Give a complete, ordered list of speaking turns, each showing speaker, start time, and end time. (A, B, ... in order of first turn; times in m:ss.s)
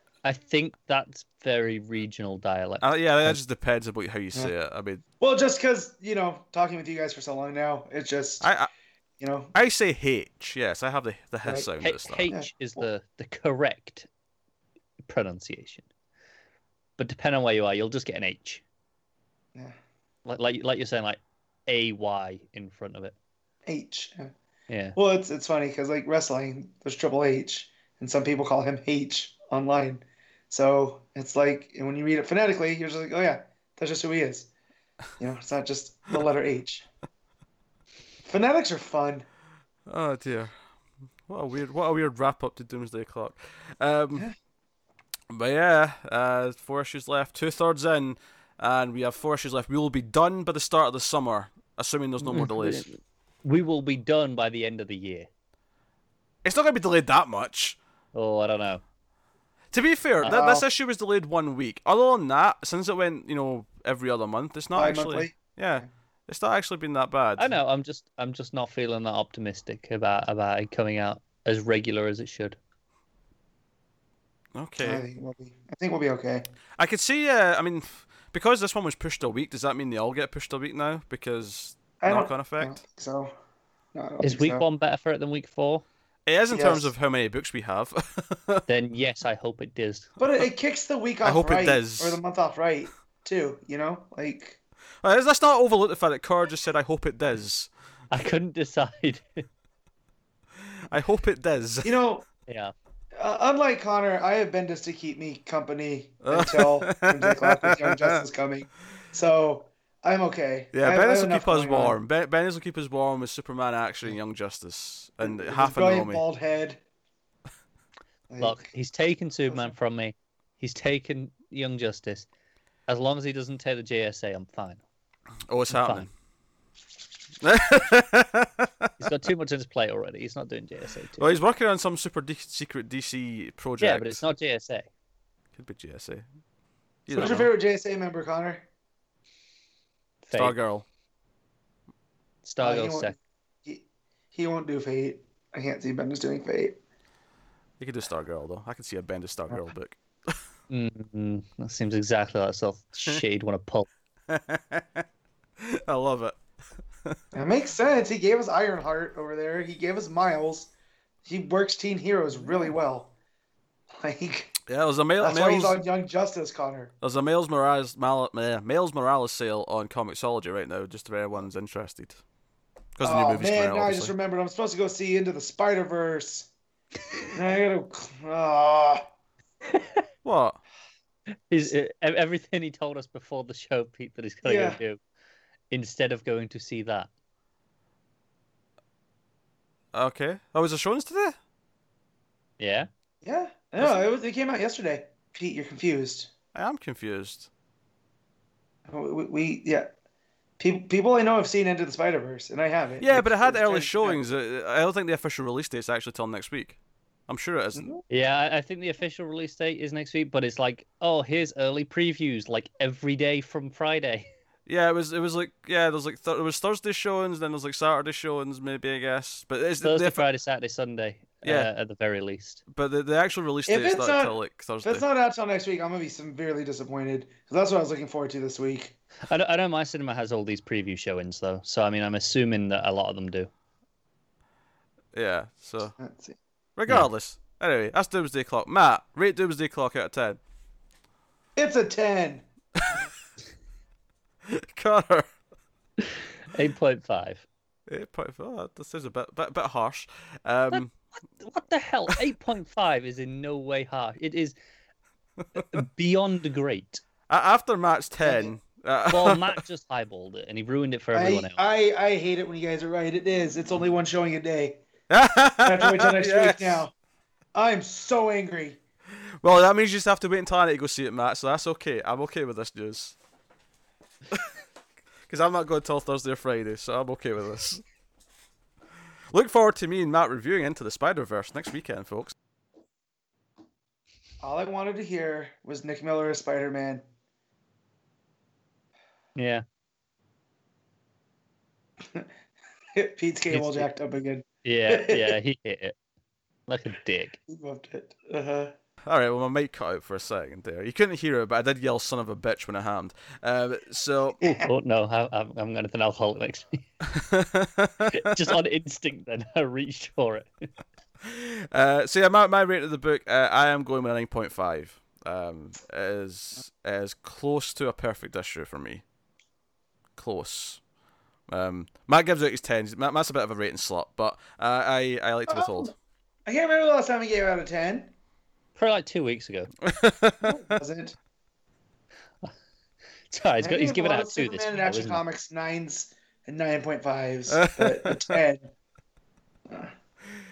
0:00.2-0:03.4 A
0:02.8-0:05.0 B
0:05.2-0:08.5 C
0:08.4-0:08.7 B
0:09.2-0:09.5 C
0:09.5-0:12.3 B
0:11.8-0:14.1 A
0:15.1-0:15.9 A
0:17.0-0:18.6 A
0:20.2-0:23.1 A
0:23.6-0:24.3 C
0:24.7-0:25.0 A
0:25.0-0:34.5 C
0:35.2-0:36.9 C
0:38.2-0:39.2 C
0:39.9-0:40.5 B
0:41.3-0:44.3 B
0:45.3-0:52.9 B
0:52.3-0:52.9 A
0:53.4-0:55.3 A
0:56.4-0:57.8 B
0:58.1-0:58.8 A
0:59.7-1:07.5 B
1:00.2-1:00.6 C
1:04.7-1:05.9 C
1:07.4-1:12.6 A
1:14.6-1:15.0 B
1:14.8-1:16.5 C
1:16.8-1:22.8 B
1:22.0-1:23.3 C
1:23.9-1:24.6 C
1:24.2-1:25.8 A
1:26.3-1:28.6 B
1:26.5-1:26.9 C
1:28.7-1:30.1 A
1:30.2-1:34.6 C
1:31.2-1:32.2 B
1:35.0-1:37.7 B
1:38.1-1:39.4 A
1:40.9-1:42.0 B
1:41.8-1:42.2 C
1:42.5-1:42.7 A
1:43.2-1:52.0 C
1:46.2-1:48.2 B
1:50.7-1:56.2 B
1:55.2-1:56.8 C
1:58.3-1:58.7 C
1:58.4-2:02.3 A
1:59.5-1:59.7 C
2:02.9-2:04.8 A
2:05.5-2:06.1 B
2:05.7-2:06.1 A
2:07.4-2:09.0 B
2:09.0-2:11.4 A
2:11.2-2:14.2 B
2:13.8-2:14.9 A
2:15.6-2:16.2 B
2:17.1-2:17.5 B
2:17.1-2:17.4 A
2:17.1-2:18.7 C
2:20.2-2:20.6 A
2:20.3-2:20.9 B
2:22.4-2:23.1 A
2:22.6-2:26.8 C
2:27.8-2:30.4 B
2:30.7-2:33.9 A
2:34.3-2:35.0 B
2:35.6-2:36.4 B
2:37.3-2:40.7 C
2:41.2-2:43.1 C
2:43.9-2:44.6 C
2:44.7-2:45.8 B
2:45.2-2:46.9 C
2:47.0-2:52.2 B
2:53.0-2:54.1 B
2:53.0-2:56.5 C
2:57.3-2:59.0 C
3:00.2-3:00.6 B
3:01.5-3:05.0 A
3:04.4-3:04.8 C
3:05.7-3:07.1 A
3:09.9-3:11.4 B
3:12.6-3:12.9 A
3:13.2-3:16.3 C
3:16.6-3:17.5 B
3:18.9-3:19.9 C
3:20.6-3:24.2 C
3:23.0-3:27.9 B
3:27.7-3:28.0 C
3:28.1-3:34.3 A
3:34.7-3:40.2 B
3:39.8-3:42.6 A
3:41.4-3:41.7 B
3:42.7-3:45.0 B
3:43.7-3:48.9 C
3:49.2-3:53.5 A
3:55.1-3:55.9 B
3:56.0-3:56.4 C
3:56.8-4:00.4 B
4:01.6-4:02.4 C
4:02.8-4:03.0 B
4:04.5-4:05.3 B
4:06.0-4:07.4 A
4:07.9-4:10.9 B
4:11.4-4:14.6 A
4:15.6-4:17.0 A
4:17.3-4:19.6 B
4:18.2-4:18.6 C
4:19.1-4:21.6 A
4:21.1-4:24.8 C
4:25.1-4:26.9 B
4:25.6-4:26.9 C
4:27.6-4:28.8 C
4:29.4-4:33.1 B
4:35.3-4:37.8 B
4:39.3-4:42.3 B
4:44.4-4:47.0 C
4:49.4-4:49.6 A
4:52.9-4:55.4 C
4:53.5-4:53.9 A
4:54.6-4:56.0 A
4:56.7-4:57.4 A
4:57.5-4:58.7 C
4:59.0-5:04.4 B
5:04.4-5:04.7 C
5:04.6-5:06.8 A
5:07.0-5:08.2 B
5:08.1-5:10.5 A
5:11.2-5:19.0 B
5:20.2-5:20.8 B
5:21.5-5:25.9 B
5:25.5-5:25.9 C
5:26.4-5:28.1 C
5:28.8-5:29.7 A
5:29.8-5:30.8 B
5:30.6-5:31.2 C
5:33.3-5:35.2 A
5:33.6-5:38.7 C
5:37.5-5:38.4 B